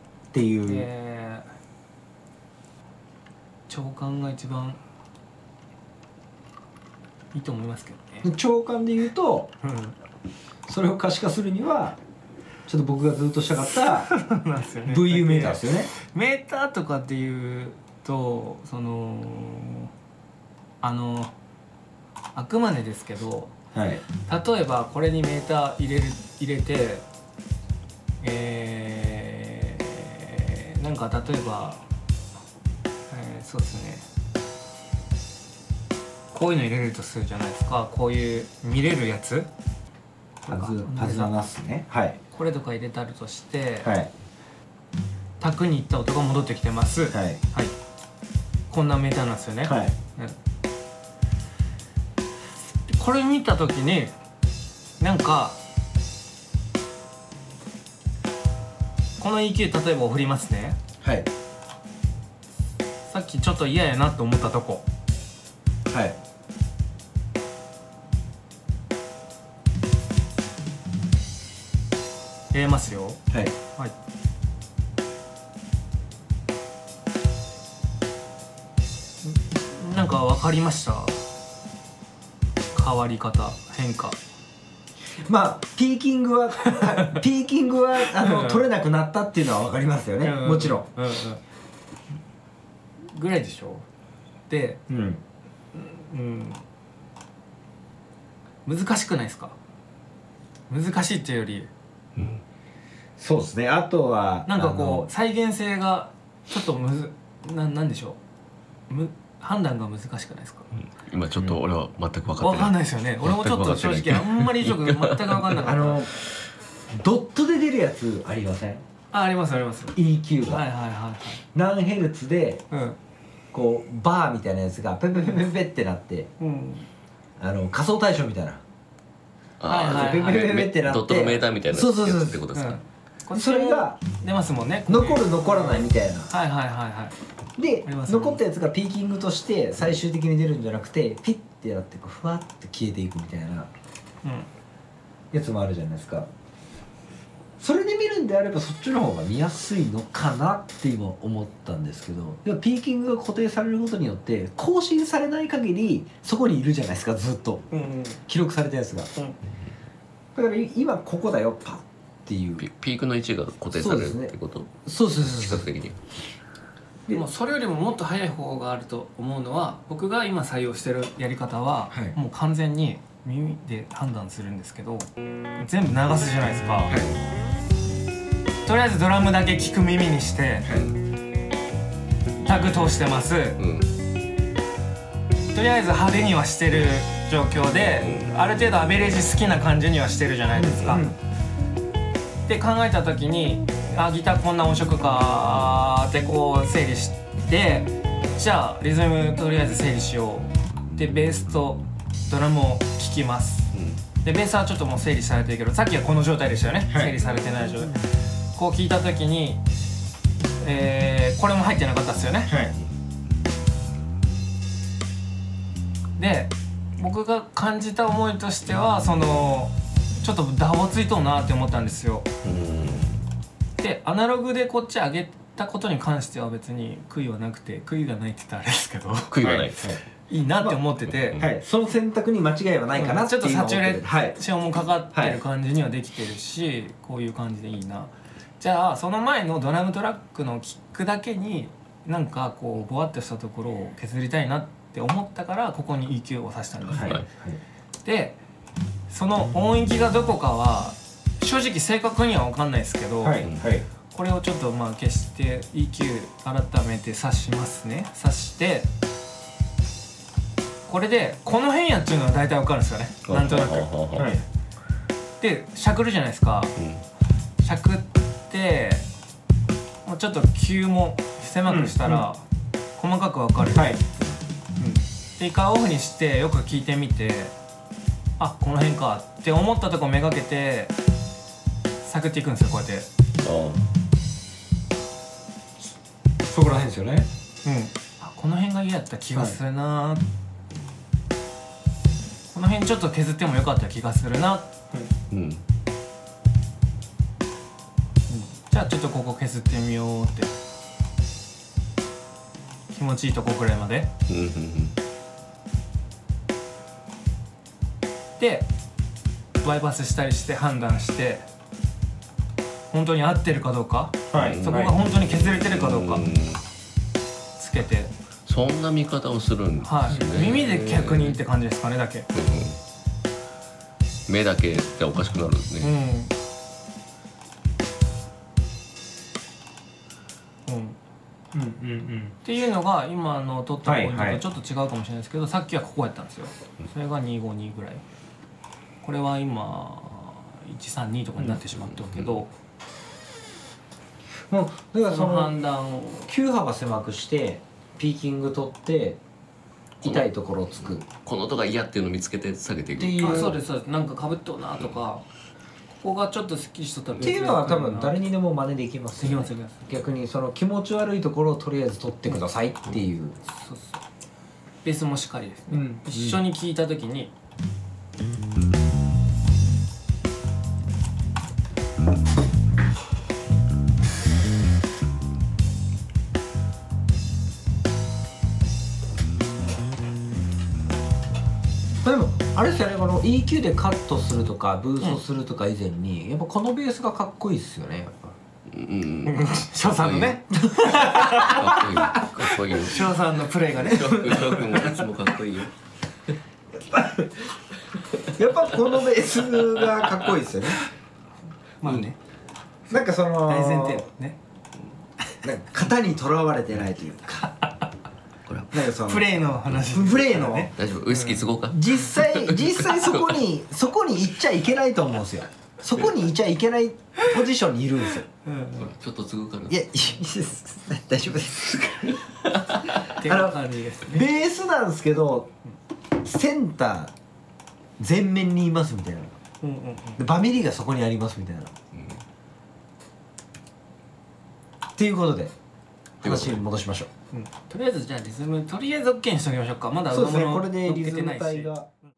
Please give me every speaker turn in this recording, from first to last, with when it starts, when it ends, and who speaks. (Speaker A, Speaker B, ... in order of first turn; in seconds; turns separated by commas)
Speaker A: 0.3-0.9, Speaker B: 0.7-1.5, Speaker B: 3.7-4.8, Speaker B: 7.3-8.3, Speaker A: 8.2-9.5, Speaker B: 9.6-9.9, Speaker A: 10.7-12.0, Speaker A: 12.7-14.1, Speaker B: 13.7-19.9, Speaker A: 14.8-15.9, Speaker B: 20.8-21.3, Speaker B: 22.3-23.5, Speaker A: 23.7-24.0, Speaker B: 24.3-27.0, Speaker B: 28.2-31.8, Speaker B: 33.1-34.0, Speaker B: 36.3-39.5, Speaker B: 40.4-41.3, Speaker A: 40.5-42.2, Speaker B: 42.3-43.9, Speaker A: 43.8-44.1, Speaker B: 45.4-47.7, Speaker A: 47.1-47.4, Speaker B: 48.7-50.4, Speaker A: 49.6-49.9, Speaker B: 52.9-54.1, Speaker B: 55.0-55.6, Speaker B: 59.2-60.8, Speaker A: 61.0-61.3, Speaker B: 63.1-64.8, Speaker A: 65.9-66.2, Speaker B: 72.5-73.2, Speaker B: 79.2-81.2, Speaker B: 82.7-84.2, Speaker A: 85.2-90.9, Speaker B: 88.1-88.7, Speaker B: 90.2-91.4, Speaker B: 93.1-93.8, Speaker B: 94.5-94.8, Speaker A: 94.9-95.2, Speaker B: 95.7-96.6, Speaker B: 98.6-99.5, Speaker B: 100.7-101.7, Speaker C: 102.2-102.4, Speaker A: 103.2-105.1, Speaker B: 104.5-108.2, Speaker B: 108.9-110.7, Speaker C: 111.1-115.4, Speaker B: 112.4-116.0, Speaker A: 115.6-116.2, Speaker A: 117.0-118.8, Speaker B: 119.1-120.0, Speaker A: 119.9-120.6, Speaker B: 120.5-121.4, Speaker A: 121.5-122.6, Speaker B: 122.7-123.0, Speaker A: 123.5-126.3, Speaker B: 126.4-126.9, Speaker A: 127.4-128.6, Speaker C: 129.6-132.8, Speaker B: 129.7-130.5, Speaker A: 129.8-132.4, Speaker B: 132.5-137.1, Speaker A: 133.3-134.0, Speaker A: 134.9-136.3, Speaker A: 137.6-143.7, Speaker B: 137.8-138.4, Speaker A: 145.3-146.3, Speaker A: 147.6-157.7, Speaker B: 157.7-158.2, Speaker A: 158.3-159.1, Speaker A: 160.3-162.6, Speaker C: 162.6-166.0, Speaker A: 163.7-165.7, Speaker B: 167.1-176.9, Speaker A: 171.9-172.2, Speaker B: 178.6-180.7, Speaker B: 182.4-183.6, Speaker C: 183.6-183.9, Speaker B: 185.5-191.1, Speaker C: 187.9-188.3, Speaker A: 190.5-191.2, Speaker B: 192.5-203.7, Speaker C: 203.7-204.0, Speaker B: 204.2-208.0, Speaker A: 206.9-207.2, Speaker B: 208.5-209.6, Speaker B: 210.6-212.5, Speaker A: 212.5-212.7, Speaker B: 216.2-222.3, Speaker C: 222.4-223.2, Speaker B: 223.8-231.4, Speaker C: 229.3-229.9, Speaker A: 229.7-230.0, Speaker C: 231.1-231.5, Speaker A: 231.4-234.4, Speaker B: 232.9-247.2, Speaker A: 235.1-235.4, Speaker A: 246.9-247.6, Speaker C: 246.9-247.2, Speaker B: 248.0-248.4, Speaker B: 249.1-253.4, Speaker A: 253.2-253.8, Speaker C: 253.4-253.7, Speaker B: 254.1-258.9, Speaker B: 260.9-263.9, Speaker C: 263.3-264.4, Speaker A: 264.1-264.4, Speaker B: 265.4-266.7, Speaker C: 266.8-267.0, Speaker B: 267.6-269.1, Speaker B: 270.0-272.4, Speaker A: 271.7-272.2, Speaker B: 273.0-273.9, Speaker A: 273.7-274.0, Speaker B: 274.8-277.5, Speaker B: 278.4-280.9, Speaker B: 282.0-283.1, Speaker C: 283.4-283.8, Speaker A: 286.5-287.3, Speaker B: 287.6-290.2, Speaker B: 292.5-294.7, Speaker C: 295.3-295.6, Speaker B: 298.3-300.5, Speaker B: 302.9-304.1, Speaker C: 304.3-304.9, Speaker B: 308.4-308.7, Speaker B: 309.6-311.4, Speaker B: 312.9-316.2, Speaker A: 314.3-314.9, Speaker C: 314.3-316.6, Speaker B: 317.6-318.1, Speaker C: 318.4-321.4, Speaker B: 319.8-322.3, Speaker A: 320.1-320.3, Speaker C: 322.3-322.8, Speaker C: 324.3-325.9, Speaker B: 325.8-326.3, Speaker B: 330.7-331.0, Speaker A: 331.5-332.3, Speaker B: 332.4-338.0, Speaker A: 333.8-334.4, Speaker B: 339.0-342.5, Speaker C: 341.7-342.4, Speaker A: 344.5-345.6, Speaker B: 345.1-346.3, Speaker A: 346.3-349.2, Speaker A: 350.0-351.0, Speaker C: 350.0-353.6, Speaker A: 353.0-353.6, Speaker B: 353.2-355.2, Speaker B: 355.9-358.1, Speaker A: 357.2-363.4, Speaker B: 359.2-359.9, Speaker B: 363.4-364.0, Speaker B: 364.8-367.3, Speaker A: 365.7-366.4, Speaker A: 382.0-388.3, Speaker C: 388.7-390.4, Speaker B: 389.2-391.6, Speaker A: 390.5-392.3, Speaker C: 391.0-393.2, Speaker B: 392.8-394.7, Speaker C: 393.7-395.7, Speaker A: 394.2-394.9, Speaker A: 396.8-397.5, Speaker A: 398.4-400.8, Speaker C: 399.4-400.3, Speaker B: 401.8-402.2, Speaker A: 402.9-404.0, Speaker B: 402.9-404.4, Speaker A: 405.4-407.5, Speaker C: 408.5-408.9, Speaker A: 408.7-410.7, Speaker B: 408.9-411.5, Speaker C: 410.8-413.4, Speaker A: 411.7-418.2, Speaker B: 418.4-418.9, Speaker C: 418.8-419.8, Speaker A: 419.7-422.2, Speaker C: 422.2-422.8, Speaker B: 423.0-424.3, Speaker A: 423.2-423.6, Speaker A: 424.1-425.5, Speaker A: 426.2-427.1, Speaker A: 428.0-429.3, Speaker B: 429.6-430.2, Speaker A: 430.2-431.7, Speaker C: 431.9-432.2, Speaker A: 435.0-435.5, Speaker A: 436.2-437.1, Speaker C: 436.2-436.6, Speaker B: 437.3-441.7, Speaker A: 440.1-441.9